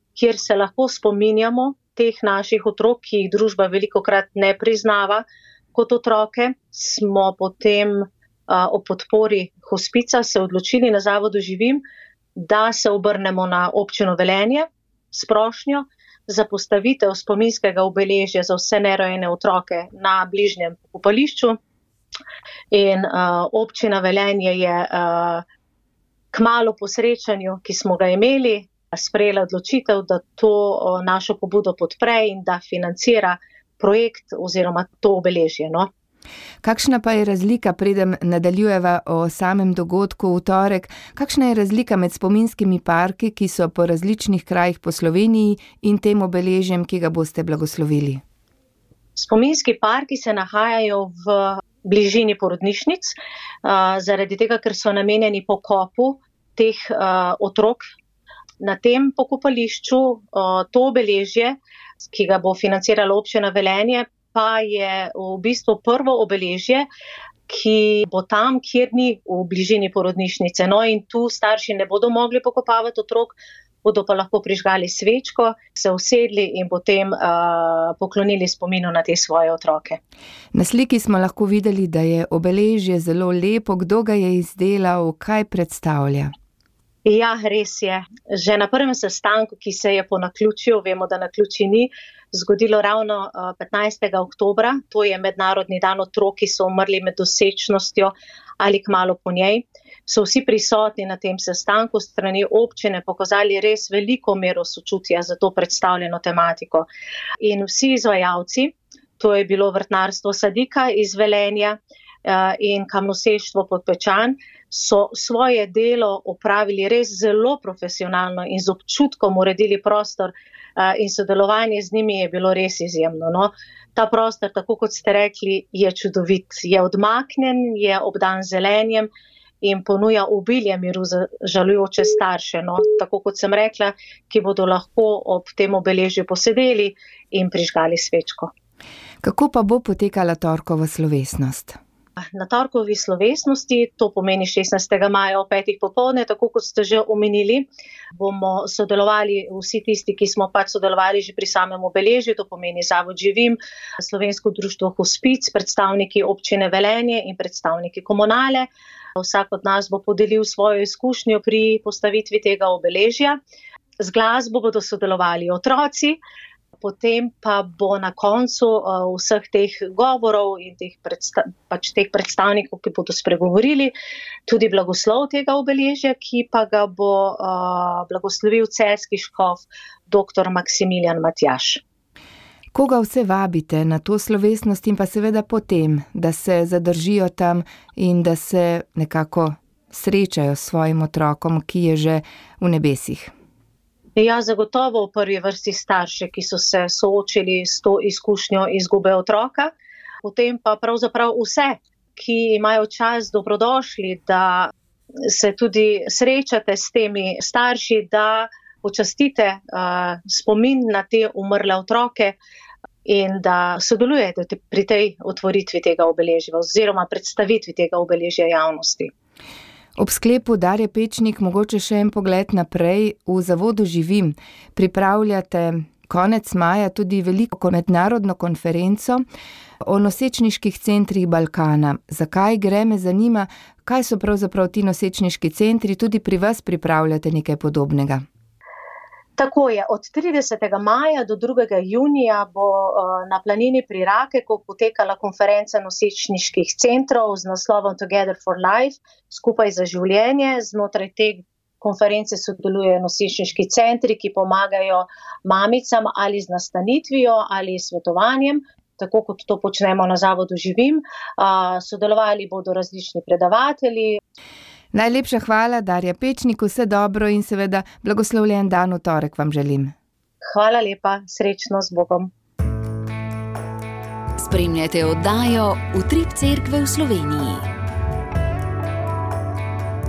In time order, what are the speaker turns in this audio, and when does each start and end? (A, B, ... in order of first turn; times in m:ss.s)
0:00.2-0:11.8 A
0:12.4-0:21.6 A
0:22.7-0:25.4 A
0:26.3-0:35.9 A
0:36.6-0:48.2 B
0:49.2-0:57.8 A
0:58.6-1:06.9 A
1:07.5-1:20.0 A
1:20.5-1:26.3 B
1:27.0-1:46.9 A
1:47.4-2:09.1 A
2:09.6-2:18.5 A
2:19.2-2:21.8 B
2:22.4-2:27.7 A
2:28.2-2:43.4 A
2:44.0-2:46.2 A
2:46.8-2:53.9 A
2:54.5-3:01.8 A
3:02.7-3:13.3 B
3:14.2-3:19.7 A
3:20.2-3:24.7 A
3:25.2-3:32.4 A
3:33.0-3:39.1 A
3:40.0-3:49.2 B
3:49.8-3:58.2 B
3:59.4-4:24.2 A
4:24.9-4:30.0 B
4:30.5-4:32.3 A
4:34.4-4:37.7 C